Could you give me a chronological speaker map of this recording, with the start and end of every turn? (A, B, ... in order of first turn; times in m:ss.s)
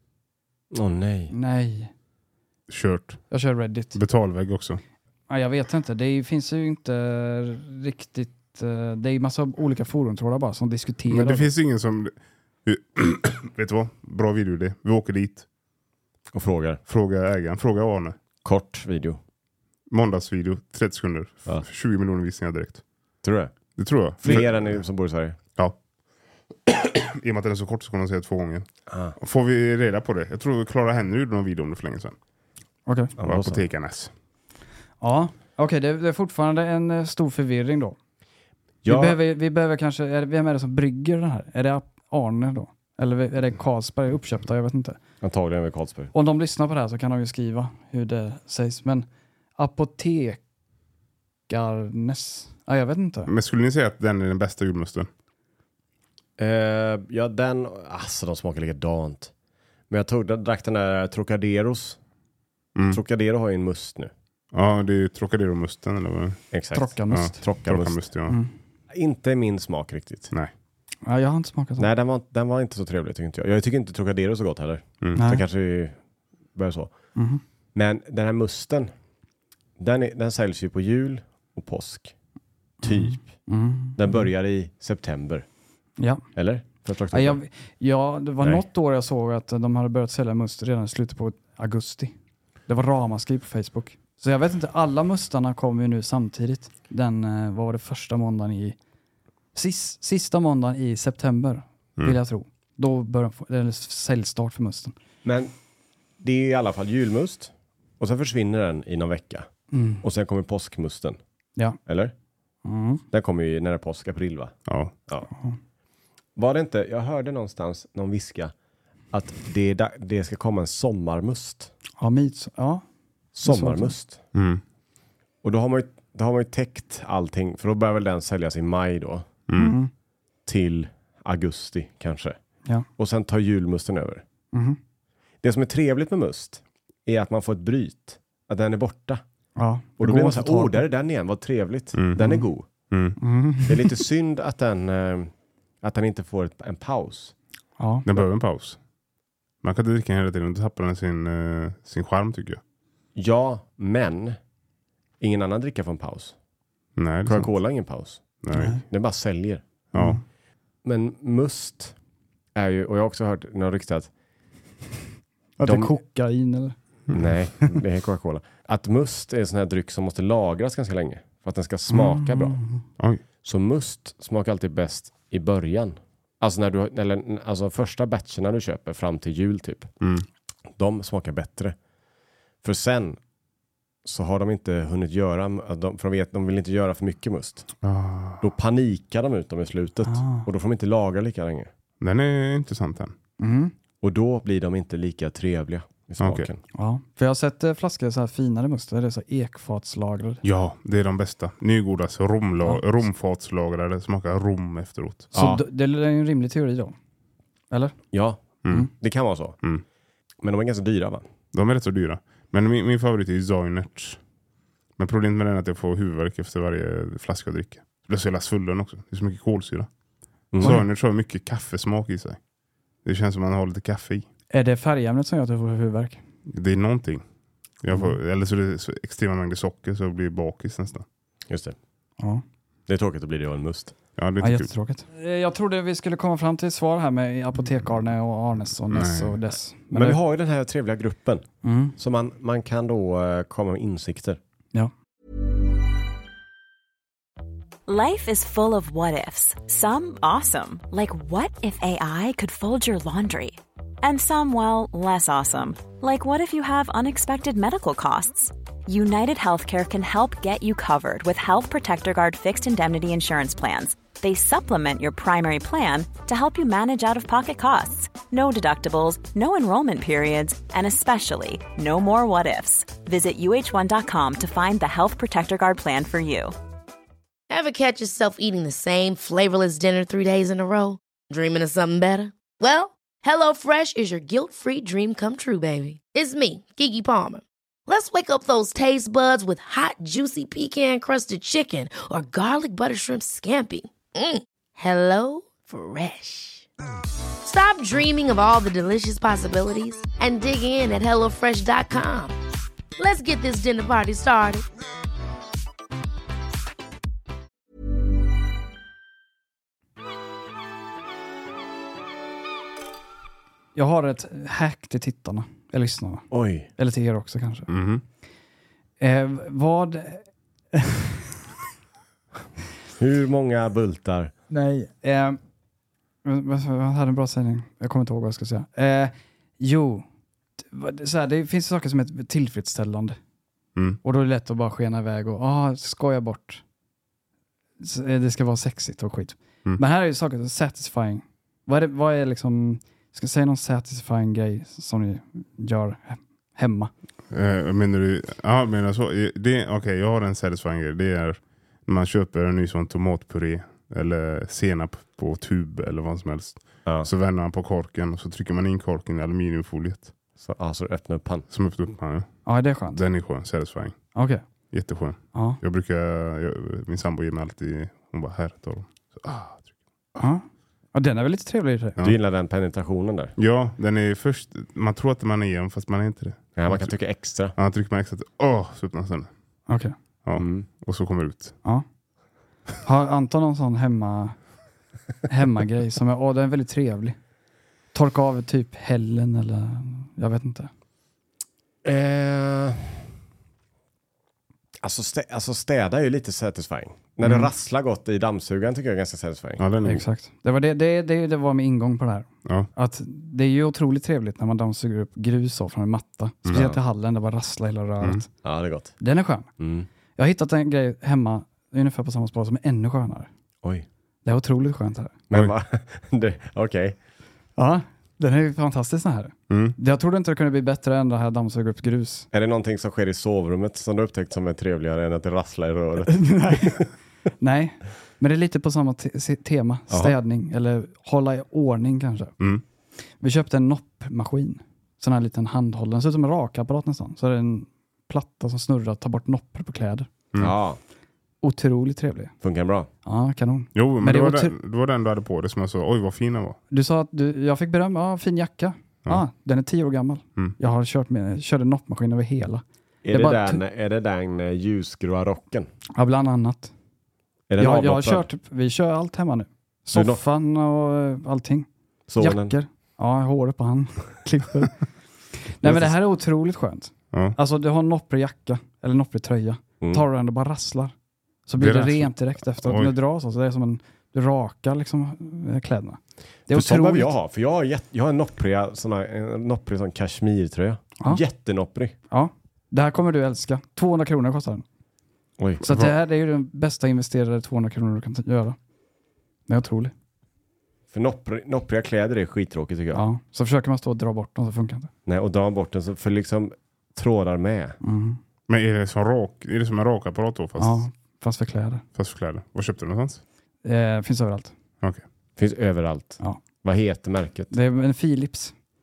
0:00.7-0:01.3 A
0:01.3-0:01.9 B
0:02.7-0:03.3 C
0:03.3-0:04.0 B
0:03.9-0:04.8 C
0:05.3-0:11.5 B
0:11.1-0:12.1 C
0:12.7-0:15.5 C
0:16.3-0:16.8 A
0:16.9-0:18.2 C
0:18.4-0:19.2 A
0:19.9-0:22.8 C
0:23.2-0:23.6 A
0:23.8-0:24.8 C
0:24.2-0:25.4 A
0:26.7-0:32.2 C
0:28.9-0:29.2 A
0:32.9-0:33.1 B
0:33.2-0:33.7 A
0:33.2-0:34.1 C
0:35.0-0:38.0 B
0:38.8-0:39.2 A
0:38.9-0:45.0 B
0:45.2-0:46.1 A
0:46.1-0:50.4 B
0:51.5-0:53.3 B
0:53.3-0:55.1 C
0:56.4-0:59.3 A
0:59.9-1:02.0 A
1:02.8-1:03.0 C
1:02.9-1:04.1 A
1:04.5-1:06.4 C
1:06.5-1:08.0 A
1:06.7-1:07.4 B
1:07.1-1:08.4 C
1:08.9-1:10.3 A
1:11.0-1:11.9 B
1:11.8-1:16.0 A
1:15.2-1:15.4 B
1:16.6-1:16.9 A
1:17.2-1:17.4 B
1:17.8-1:18.9 A
1:19.8-1:22.2 A
1:22.8-1:23.4 A
1:22.8-1:24.2 B
1:24.0-1:25.5 A
1:26.0-1:26.2 B
1:26.4-1:27.4 A
1:27.1-1:32.1 B
1:32.7-1:38.8 B
1:39.6-1:44.9 B
1:45.2-1:45.5 A
1:46.2-1:49.5 A
1:49.7-1:50.0 B
1:50.0-1:51.2 A
1:51.9-1:52.1 A
1:52.6-1:53.0 B
1:53.1-1:54.6 A
1:54.7-1:54.9 C
1:55.3-1:55.6 B
1:56.4-1:58.5 A
1:59.1-2:01.7 A
2:02.0-2:02.8 B
2:03.3-2:04.2 A
2:03.4-2:04.0 B
2:04.3-2:04.6 C
2:05.4-2:09.3 A
2:09.5-2:09.8 C
2:09.6-2:09.9 B
2:10.5-2:12.4 A
2:13.0-2:14.2 A
2:14.5-2:14.8 B
2:15.4-2:19.2 A
2:19.6-2:20.9 B
2:20.0-2:22.7 A
2:22.0-2:23.2 C
2:23.2-2:24.0 B
2:23.7-2:27.3 A
2:27.8-2:28.1 B
2:28.0-2:28.8 C
2:29.6-2:32.6 C
2:33.2-2:34.4 A
2:35.2-2:36.4 A
2:37.0-2:37.5 C
2:37.2-2:39.6 A
2:38.4-2:38.8 C
2:38.5-2:38.8 B
2:39.9-2:40.2 C
2:40.0-2:40.2 B
2:40.8-2:42.0 A
2:42.6-2:44.1 A
2:45.6-2:46.8 B
2:45.6-2:46.0 A
2:47.1-2:52.6 A
2:51.9-2:52.8 B
2:53.4-2:59.9 A
3:00.0-3:00.3 C
3:00.8-3:01.8 A
3:02.6-3:03.2 A
3:04.0-3:07.7 A
3:07.8-3:08.4 C
3:08.4-3:11.7 A
3:10.0-3:10.5 B
3:12.0-3:13.2 C
3:13.4-3:13.7 B
3:14.0-3:16.6 A
3:16.2-3:16.5 C
3:16.7-3:20.4 B
3:20.4-3:25.3 C
3:25.3-3:25.6 A
3:25.3-3:27.0 B
3:27.7-3:28.0 B
3:28.1-3:29.6 A
3:28.6-3:28.9 C
3:30.4-3:31.3 A
3:31.5-3:34.2 C
3:35.0-3:39.9 C
3:40.5-3:40.8 A
3:40.6-3:42.4 C
3:43.0-3:44.3 C
3:44.5-3:46.2 B
3:46.5-3:47.2 C
3:47.8-3:51.0 C
3:51.5-3:51.8 A
3:52.9-3:54.0 A
3:54.2-3:54.7 C
3:54.4-4:00.2 B
3:58.9-3:59.4 C
3:59.9-4:04.4 A
4:01.6-4:02.0 B
4:07.9-4:36.5 D
4:37.5-4:56.7 E
4:57.4-5:02.4 E
5:03.0-5:04.7 E
5:13.8-5:17.7 B
5:16.3-5:16.7 A
5:17.7-5:18.0 C
5:19.0-5:21.2 B
5:23.0-5:24.3 A
5:24.5-5:25.4 B
5:26.2-5:30.0 B
5:30.6-5:33.2 B
5:34.0-5:36.6 B
5:37.8-5:46.9 B
5:47.3-6:00.1 C
6:00.4-6:01.5 A
6:01.5-6:04.0 C
6:02.4-6:03.0 B
6:04.2-6:04.4 B
6:04.7-6:09.7 C
6:05.3-6:05.6 B
6:10.2-6:12.0 B
6:12.0-6:13.4 A
6:13.4-6:16.9 C
6:16.6-6:17.6 A
6:17.6-6:19.3 C
6:19.7-6:20.0 B
6:20.2-6:21.6 C
6:20.4-6:20.7 A
6:22.8-6:24.4 B
6:25.3-6:27.2 B
6:27.9-6:30.7 B
6:31.8-6:33.1 A
6:34.8-6:39.6 A
6:37.2-6:37.5 B
6:39.6-6:40.0 C
6:39.8-6:48.3 B
6:46.5-6:46.8 A
6:48.4-6:49.0 A
6:49.0-6:49.5 B
6:49.6-6:49.9 A
6:50.2-6:53.3 B
6:54.2-6:55.2 B
6:55.3-6:57.0 A
6:57.6-7:02.3 B
6:59.5-6:59.8 C
7:02.3-7:06.9 A
7:06.1-7:06.8 B
7:07.4-7:12.3 B
7:09.9-7:10.2 A
7:13.2-7:20.1 B
7:20.4-7:20.8 A
7:21.4-7:22.3 B
7:22.4-7:22.9 A
7:23.0-7:24.5 B
7:23.8-7:26.6 C
7:26.7-7:33.6 B
7:33.0-7:35.7 A
7:36.0-7:36.7 B
7:37.5-7:38.3 A
7:37.6-7:41.7 B
7:39.9-7:40.2 A
7:42.1-7:42.6 A
7:42.2-7:44.8 B
7:45.4-7:50.9 B
7:45.6-7:45.9 A
7:51.5-7:57.1 B
7:51.6-7:53.0 C
7:56.5-8:02.0 A
8:02.1-8:04.6 B
8:05.4-8:05.8 A
8:05.6-8:08.6 B
8:09.5-8:09.9 B
8:10.9-8:13.0 A
8:12.9-8:14.9 B
8:15.1-8:17.8 A
8:17.8-8:18.2 B
8:18.5-8:20.8 C
8:20.6-8:21.8 B
8:22.0-8:23.2 C
8:23.6-8:24.5 B
8:25.4-8:27.5 A
8:27.5-8:28.5 B